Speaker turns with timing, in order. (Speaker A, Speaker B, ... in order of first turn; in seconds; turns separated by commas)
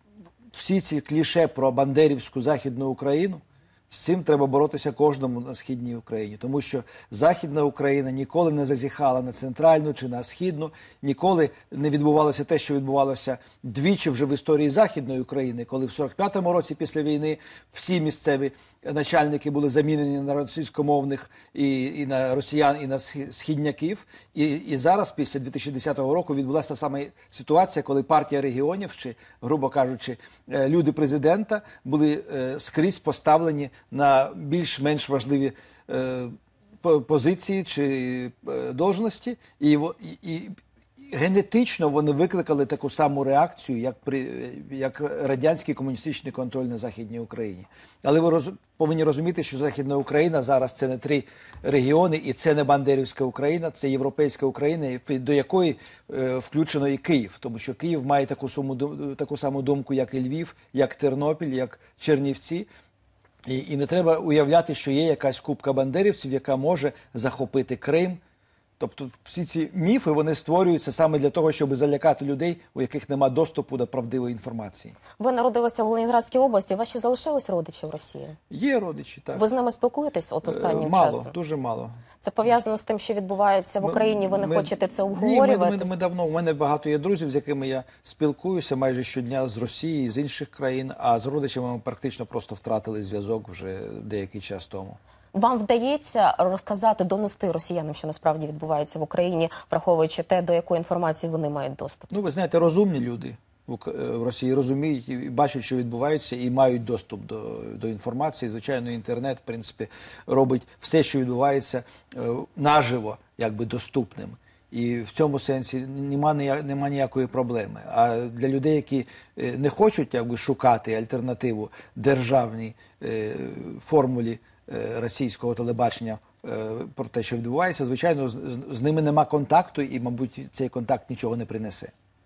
Speaker A: 0.5-62.7, Speaker A: 63.5-68.2, Speaker A: 68.8-75.0, Speaker B: 75.2-78.4, Speaker A: 78.5-79.5, Speaker B: 79.3-81.3, Speaker A: 80.5-81.9, Speaker B: 82.2-85.9, Speaker A: 83.8-95.0, Speaker B: 95.3-102.1, Speaker A: 102.1-131.9